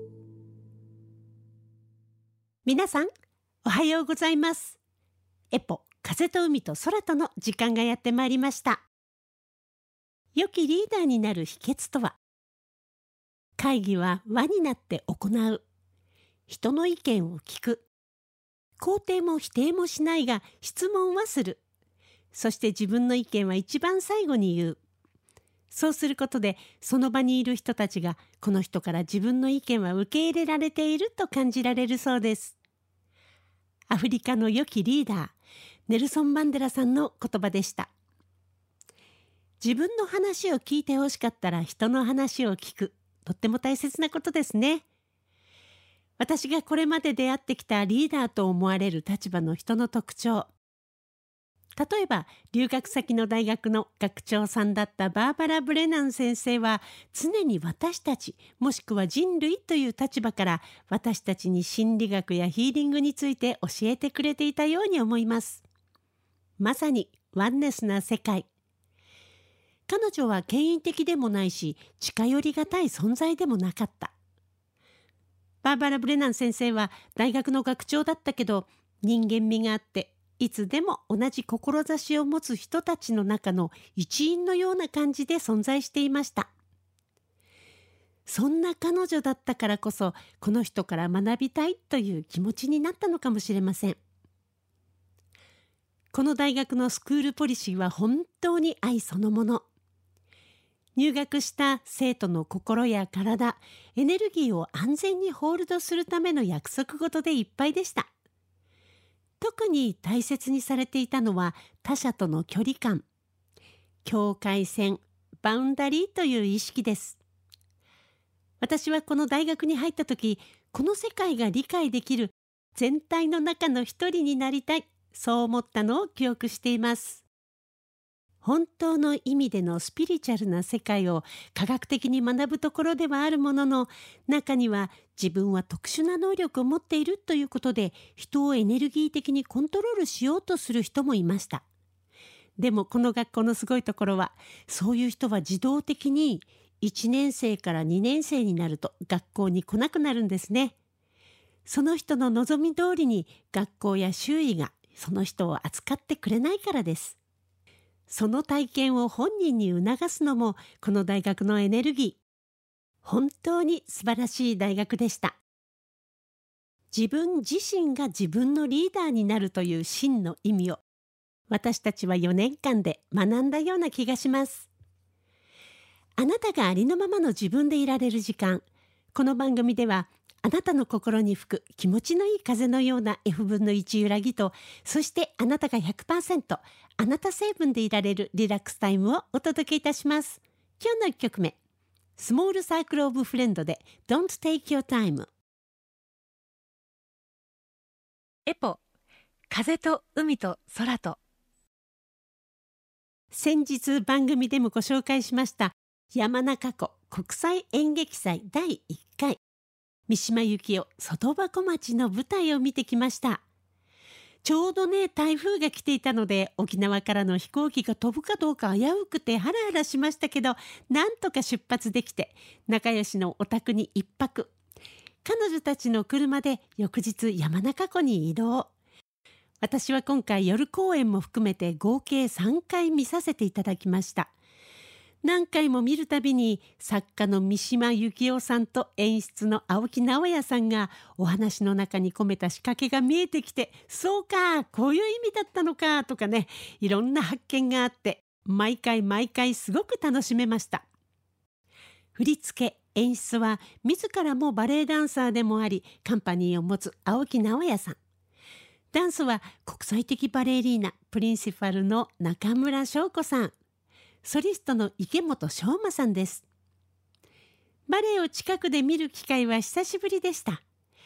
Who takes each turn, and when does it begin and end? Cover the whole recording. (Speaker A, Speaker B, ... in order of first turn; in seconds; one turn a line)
Speaker A: 2.6-3.1
Speaker A: 3.6-4.8
Speaker A: 5.5-8.9
Speaker A: 10.3-12.2
Speaker A: 13.6-15.6
Speaker A: 16.5-17.9
Speaker A: 18.8-21.6
Speaker A: 22.3-24.8
Speaker A: 25.7-32.6
Speaker A: 33.9-35.4
Speaker A: 35.9-37.9
Speaker A: 39.6-44.9
Speaker A: 46.2-50.5
Speaker A: 51.8-65.6
Speaker A: 66.6-68.5
Speaker A: 69.9-74.1
Speaker A: 75.6-86.5
Speaker A: 88.3-94.0
Speaker A: 96.1-99.7
Speaker A: 101.0-108.1
Speaker A: 109.4-113.0
Speaker A: 114.0-117.2
Speaker A: 118.6-127.3
Speaker A: 128.4-141.7
Speaker A: 142.6-150.8
Speaker A: 151.7-157.2
Speaker A: 158.1-162.2
Speaker A: 163.0-165.4
Speaker A: 166.9-170.8
Speaker A: 171.5-174.7
Speaker A: 176.2-178.6
Speaker A: 179.1-191.6
Speaker A: 192.2-195.3
Speaker A: 198.5-198.8
Speaker A: 199.5-201.2
Speaker A: 203.3-209.4
Speaker A: 210.1-213.4
Speaker A: 214.4-224.5
Speaker A: 225.2-228.7
Speaker A: 229.6-234.3
Speaker A: 235.2-250.8
Speaker A: 252.2-258.0
Speaker A: 258.9-263.5
Speaker A: 264.2-266.5
Speaker A: 267.9-270.6